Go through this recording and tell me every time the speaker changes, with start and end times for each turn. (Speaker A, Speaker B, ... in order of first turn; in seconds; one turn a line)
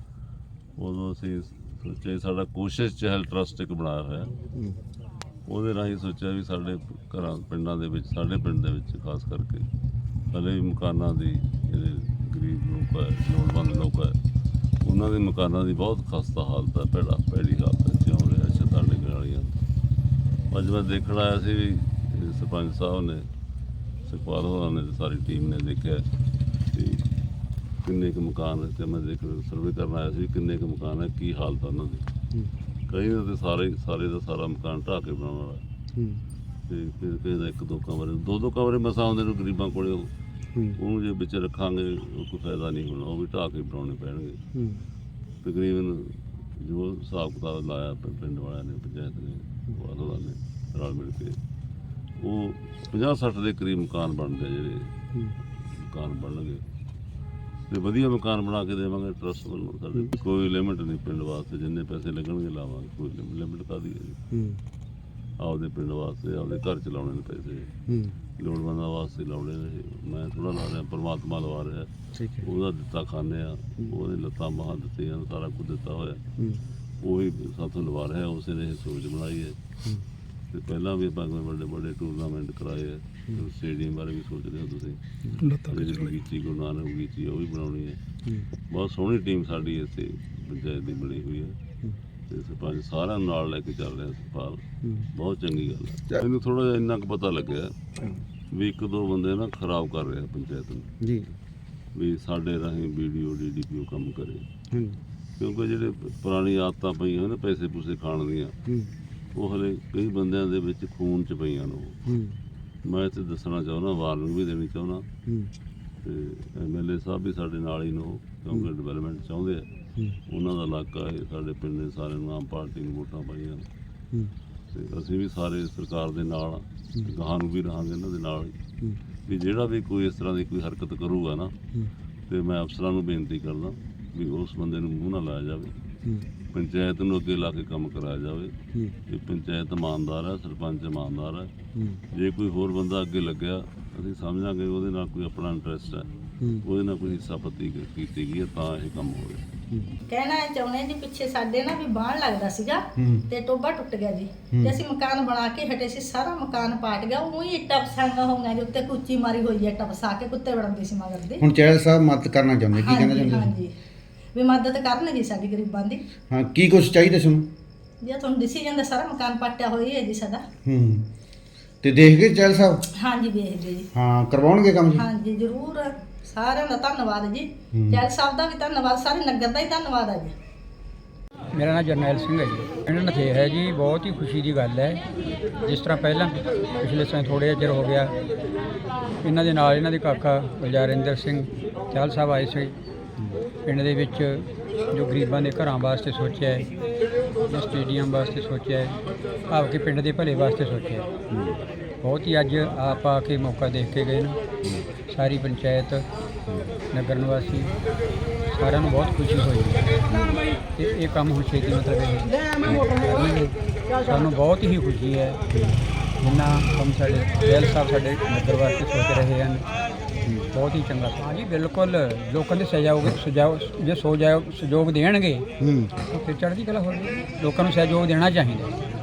Speaker A: 0.8-4.3
Speaker A: 5.5-9.7
Speaker A: 10.3-14.2
Speaker A: 14.8-19.6
Speaker A: 20.5-23.3
Speaker A: 24.1-26.1
Speaker A: 26.7-27.1
Speaker A: 27.8-32.0
Speaker A: 32.9-35.6
Speaker A: 36.7-40.1
Speaker A: 40.7-44.4
Speaker A: 45.4-51.4
Speaker A: 52.2-55.0
Speaker A: 55.7-56.6
Speaker A: 57.7-64.2
Speaker A: 65.4-67.7
Speaker A: 68.4-76.3
Speaker A: 77.0-79.6
Speaker A: 80.5-85.0
Speaker A: 85.6-88.0
Speaker A: 88.7-91.6
Speaker A: 92.3-97.8
Speaker A: 98.5-100.9
Speaker B: 101.0-101.3
Speaker A: 102.0-104.4
Speaker B: 104.7-105.0
Speaker A: 105.4-108.5
Speaker A: 109.3-112.0
Speaker A: 112.8-115.1
Speaker A: 116.0-119.7
Speaker A: 120.3-123.6
Speaker A: 124.7-128.6
Speaker A: 129.2-131.6
Speaker A: 132.3-135.7
Speaker A: 136.5-138.5
Speaker A: 139.1-141.5
Speaker A: 142.1-146.1
Speaker A: 146.6-149.5
Speaker C: 150.1-161.4
Speaker B: 153.0-153.3
Speaker B: 154.5-154.8
Speaker B: 161.4-163.6
Speaker C: 162.8-163.7
Speaker C: 164.3-166.0
Speaker B: 166.3-167.5
Speaker C: 168.0-170.4
Speaker B: 170.6-171.0
Speaker B: 171.8-172.8
Speaker C: 173.0-173.9
Speaker B: 173.9-175.1
Speaker C: 174.9-180.3
Speaker B: 177.7-178.0
Speaker D: 181.5-185.0
Speaker D: 185.6-188.1
Speaker D: 189.2-192.8
Speaker D: 193.6-196.7
Speaker D: 197.5-201.1
Speaker D: 202.0-204.4
Speaker D: 205.1-206.1
Speaker D: 206.9-207.7
Speaker D: 208.5-209.9
Speaker B: 210.1-210.4
Speaker D: 210.8-215.4
Speaker D: 216.2-219.6
Speaker D: 220.5-225.5
Speaker B: 225.6-225.9
Speaker D: 226.1-228.7